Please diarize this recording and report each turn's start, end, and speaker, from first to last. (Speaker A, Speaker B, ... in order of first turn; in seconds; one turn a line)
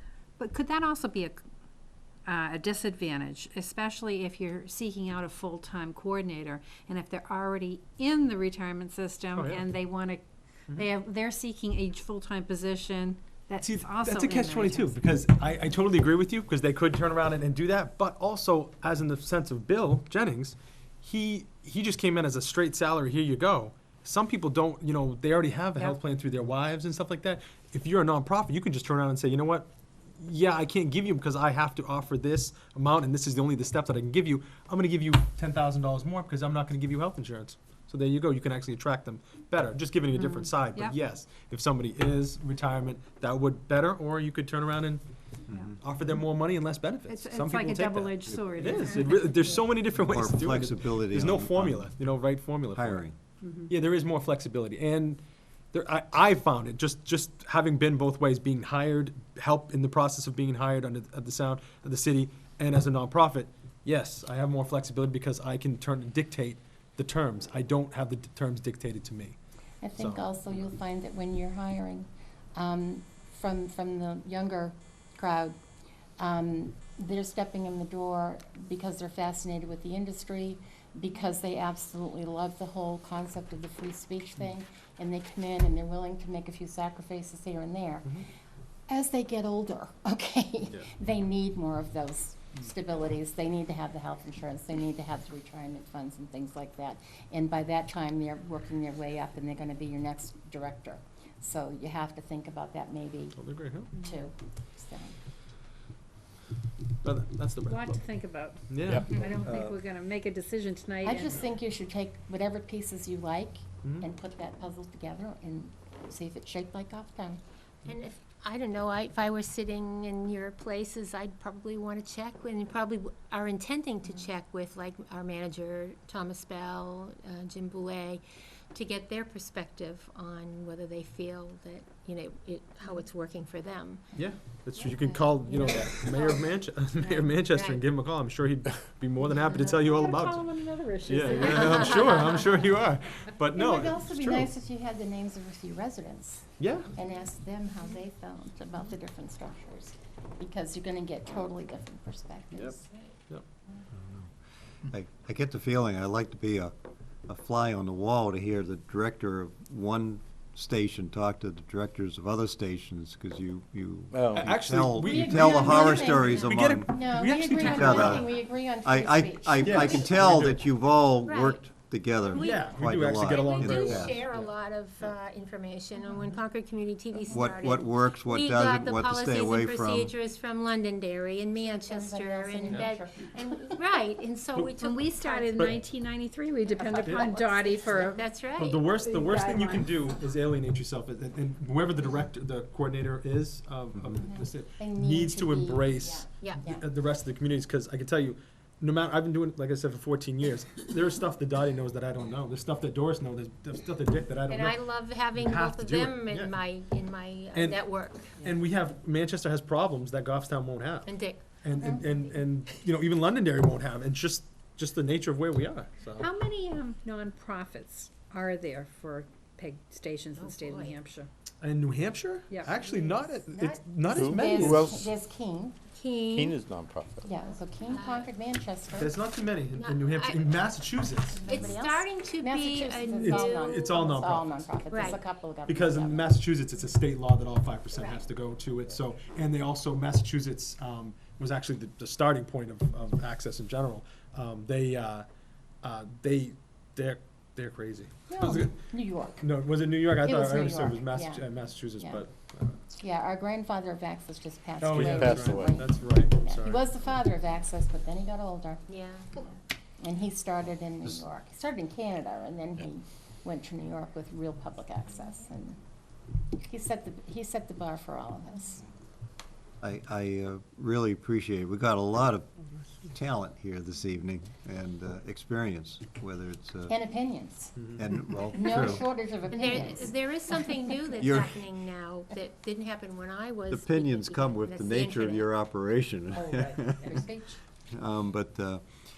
Speaker A: 0.4-1.4
Speaker A: 2.2-15.0
Speaker B: 9.3-9.6
Speaker B: 13.6-29.7
Speaker B: 30.2-45.0
Speaker A: 40.1-41.0
Speaker B: 45.7-53.0
Speaker A: 47.1-49.6
Speaker C: 48.8-49.6
Speaker D: 49.9-51.9
Speaker D: 52.7-53.1
Speaker A: 53.4-53.7
Speaker B: 53.7-55.2
Speaker B: 55.7-69.4
Speaker E: 69.8-75.5
Speaker B: 69.9-70.7
Speaker E: 76.2-88.3
Speaker E: 88.9-103.4
Speaker B: 103.3-104.0
Speaker E: 104.0-105.1
Speaker B: 107.0-108.0
Speaker A: 107.7-111.4
Speaker B: 108.7-109.0
Speaker D: 109.3-109.8
Speaker E: 111.0-117.4
Speaker B: 113.8-114.1
Speaker C: 117.8-134.2
Speaker B: 134.2-140.4
Speaker C: 134.9-136.4
Speaker C: 137.1-137.8
Speaker A: 139.6-142.5
Speaker B: 141.1-144.5
Speaker C: 141.4-142.4
Speaker E: 143.5-152.9
Speaker B: 146.6-146.9
Speaker D: 154.9-156.7
Speaker D: 157.3-174.2
Speaker F: 164.1-164.6
Speaker B: 164.4-168.2
Speaker E: 165.0-170.1
Speaker C: 165.7-166.6
Speaker B: 169.6-170.6
Speaker C: 171.2-171.6
Speaker C: 172.3-185.8
Speaker B: 172.3-174.2
Speaker D: 177.3-180.1
Speaker E: 181.5-183.8
Speaker A: 184.8-189.9
Speaker E: 186.8-188.1
Speaker B: 187.0-187.3
Speaker C: 187.3-188.8
Speaker B: 188.5-206.6
Speaker E: 194.1-196.9
Speaker C: 204.5-208.3
Speaker B: 207.5-207.8
Speaker B: 208.4-216.3
Speaker C: 211.1-211.4
Speaker E: 211.8-212.2
Speaker A: 216.2-221.3
Speaker C: 220.4-220.9
Speaker B: 221.6-224.9
Speaker A: 222.5-222.7
Speaker C: 222.9-223.8
Speaker F: 224.1-225.1
Speaker E: 224.1-225.8
Speaker C: 225.9-226.6
Speaker F: 226.3-227.3
Speaker E: 227.2-229.1
Speaker C: 227.8-228.3
Speaker B: 228.9-231.6
Speaker C: 229.7-230.6
Speaker C: 231.4-233.9
Speaker E: 231.5-236.3
Speaker B: 233.1-245.2
Speaker C: 234.9-235.2
Speaker C: 237.9-238.2
Speaker B: 245.8-248.8
Speaker E: 248.3-249.5
Speaker B: 249.4-252.8
Speaker E: 250.0-252.2
Speaker E: 253.0-258.8
Speaker B: 254.8-256.9
Speaker F: 254.9-255.8
Speaker C: 258.9-259.4
Speaker E: 259.3-265.8
Speaker E: 266.5-268.9
Speaker D: 269.8-272.5
Speaker D: 273.0-277.0
Speaker E: 276.9-277.9
Speaker D: 277.9-279.1
Speaker E: 278.5-281.0
Speaker C: 279.5-285.5
Speaker D: 281.2-281.6
Speaker D: 283.7-287.3
Speaker E: 286.3-287.6
Speaker D: 287.9-288.8